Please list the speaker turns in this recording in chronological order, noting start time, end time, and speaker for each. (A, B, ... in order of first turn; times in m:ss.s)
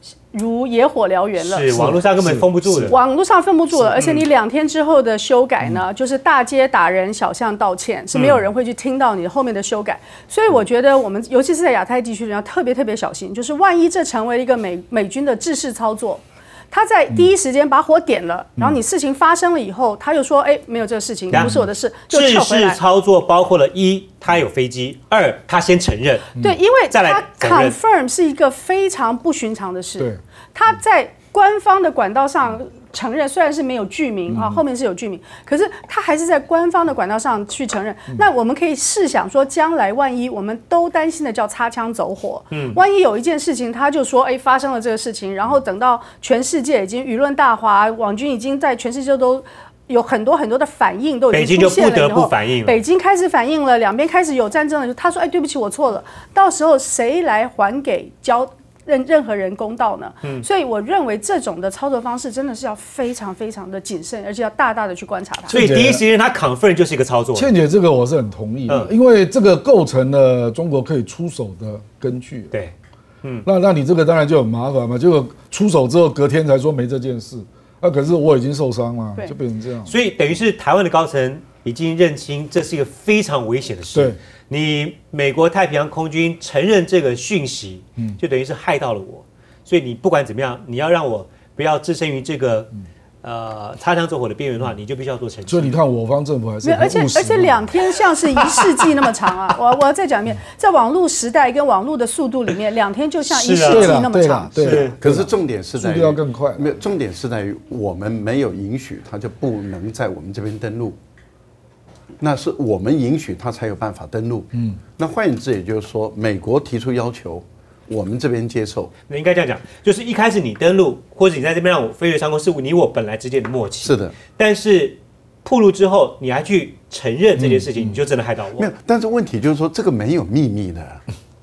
0:00.3-0:22.8 A
0:01.4-0:03.0 B
0:04.0-0:04.2 B
0:08.1-0:08.4 B
0:21.3-0:26.3 B
0:21.3-0:21.6 C
0:26.4-1:05.6 A
0:26.9-0:27.8 B
0:34.3-0:34.6 C
0:42.5-0:42.8 B
0:51.3-0:52.8 B
1:05.5-1:06.0 C
1:05.5-1:07.5 B
1:07.3-1:12.5 C
1:08.7-1:08.9 B
1:12.5-1:13.4 B
1:13.4-1:20.0 C
1:19.9-1:32.7 B
1:23.9-1:24.2 C
1:33.2-1:35.7 B
1:35.5-1:37.7 C
1:36.6-1:44.8 A
1:43.3-1:44.0 B
1:43.6-1:46.8 C
1:44.6-1:45.0 B
1:44.7-1:51.0 D
1:52.2-1:58.9 D
1:54.5-1:54.8 C
1:59.1-2:08.7 B
2:03.8-2:04.1 D
2:07.4-2:08.0 C
2:08.6-2:11.0 D